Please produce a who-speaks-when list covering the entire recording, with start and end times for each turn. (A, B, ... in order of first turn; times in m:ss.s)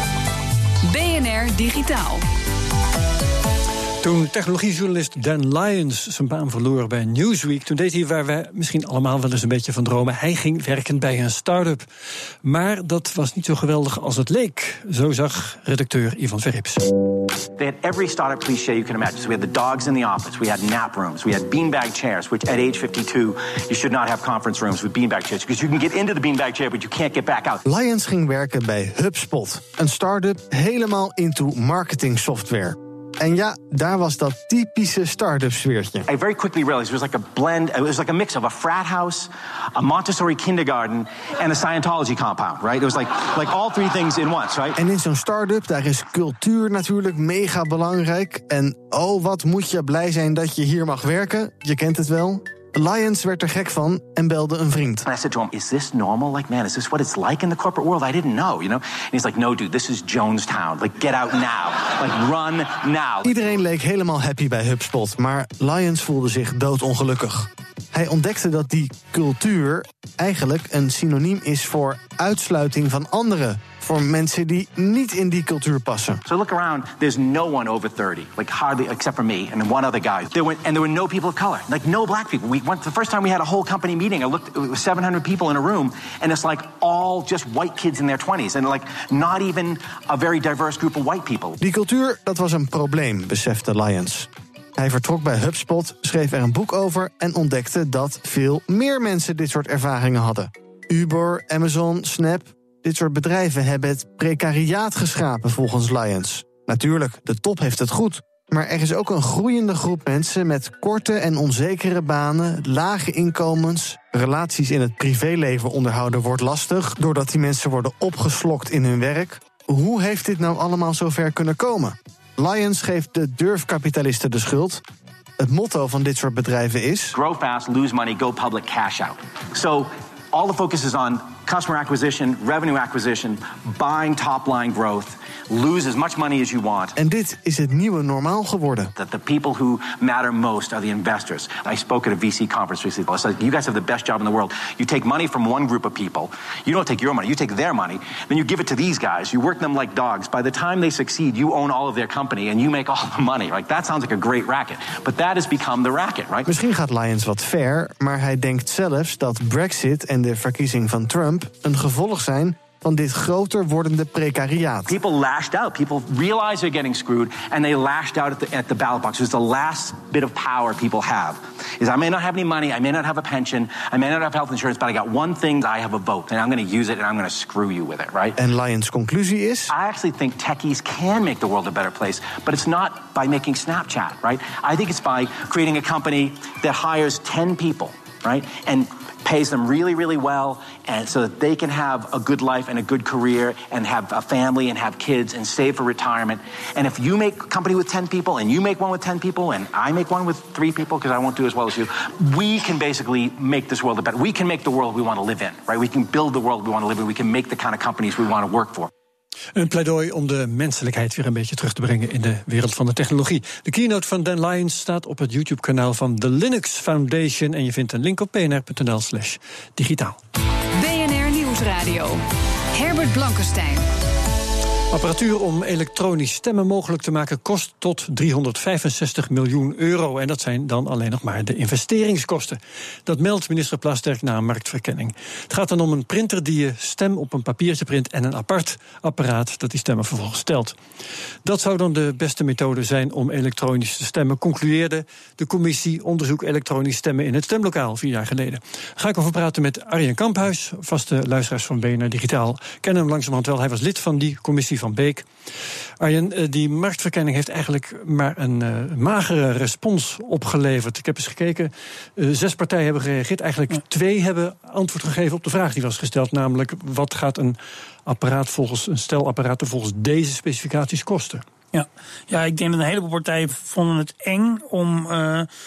0:00.8-0:02.2 A
0:04.0-0:11.8 B
0:12.4-0:16.8 B
0:17.6-0:27.6 C
0:27.7-0:36.1 D
0:36.1-0:44.8 C
0:44.8-0:55.0 D
0:55.1-1:03.3 C
1:03.2-1:16.2 D
1:16.3-1:31.6 C
1:31.6-2:04.8 D
2:05.4-2:07.2 D
2:07.1-2:17.0 C
2:17.0-2:18.9 D
2:19.0-2:36.5 C
2:36.5-2:45.0 D
2:44.9-2:58.4 C
2:58.4-2:59.7 D
2:59.7-3:28.9 C
3:29.6-3:40.2 B
3:40.8-3:43.9 A
3:44.9-4:00.8 B
4:01.4-4:15.3 B
4:16.0-4:31.4 B
4:31.7-4:35.5 E